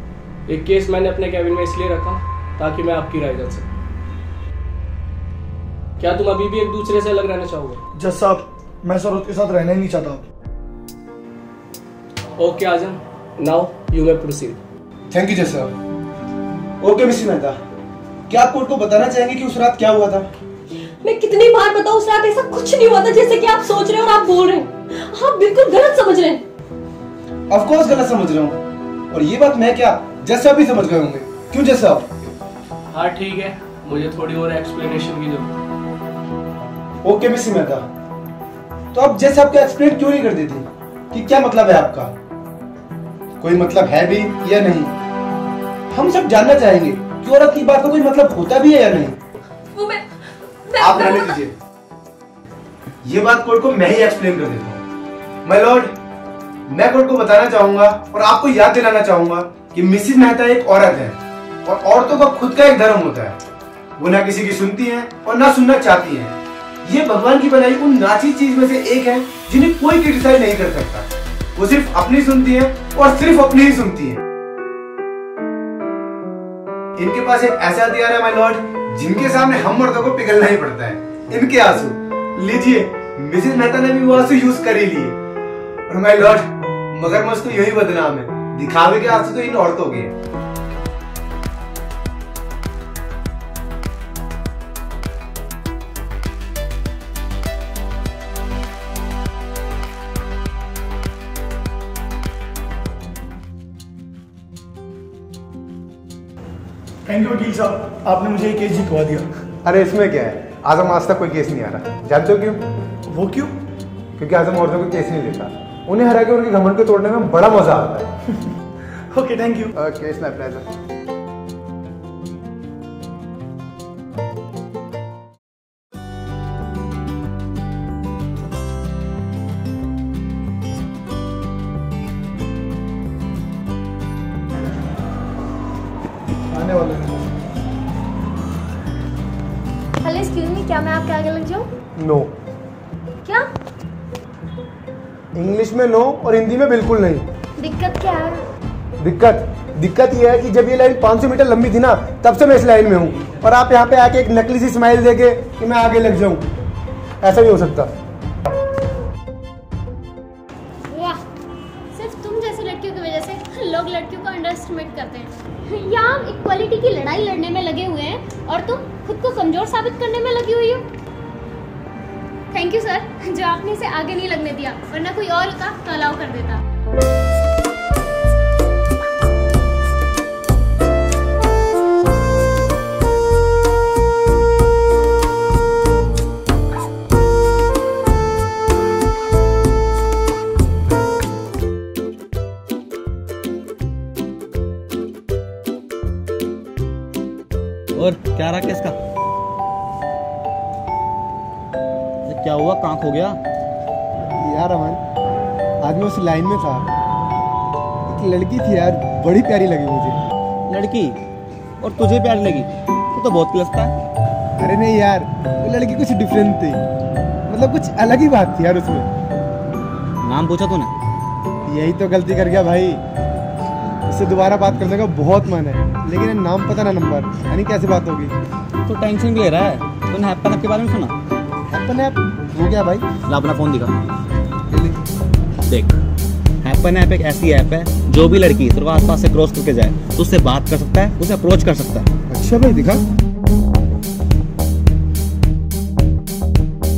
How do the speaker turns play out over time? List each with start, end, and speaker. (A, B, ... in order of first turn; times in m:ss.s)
0:00.5-0:03.7 A
0:06.0-0:07.8 A
0:08.0-0:10.2 B
0:12.4-0:14.6 A
0:15.1-0:15.7 C
0:16.8-0:17.6 C
0:18.3-0:20.3 C
0:21.0-0:26.4 D
0:27.5-0:28.6 C
0:29.1-0:32.1 C
0:32.9-0:35.5 A
0:37.0-0:37.9 C
0:38.9-0:42.1 C
0:43.4-0:44.9 C
0:45.9-0:49.2 C
0:49.8-0:50.0 D
0:50.7-0:51.3 D
0:50.8-0:51.5 C
0:53.0-0:54.8 C
0:55.4-0:55.9 C
0:56.7-1:03.4 C
1:04.0-1:14.2 C
1:17.0-1:25.2 C
1:25.9-1:30.1 C
1:47.1-1:49.3 B
1:49.6-1:52.6 C
1:53.1-1:53.6 B
1:54.2-1:58.1 C
1:59.1-1:59.7 B
1:59.8-2:00.7 C
2:16.5-2:17.3 C
2:20.0-2:21.7 E
2:22.0-2:22.3 C
2:25.4-2:27.3 C
2:27.6-2:28.4 E
2:29.0-2:36.5 C
2:37.2-2:37.9 C
2:40.9-2:41.2 E
2:41.9-2:50.9 E
2:52.5-2:56.6 E
3:18.0-3:19.0 F
3:22.3-3:23.4 F
3:24.4-3:25.0 C
3:25.8-3:26.9 C
3:28.1-3:30.2 C
3:30.7-3:31.2 F
3:31.8-3:33.9 F
3:34.6-3:36.8 C
3:37.5-3:39.1 C
3:40.2-3:40.9 F
3:41.7-3:43.0 C
3:44.1-3:48.4 C
3:48.9-3:51.1 F
3:51.7-3:53.1 C
3:53.2-3:54.0 F
3:54.7-3:55.0 C
3:55.7-3:56.0 F
3:56.6-4:02.1 F
4:02.3-4:03.0 C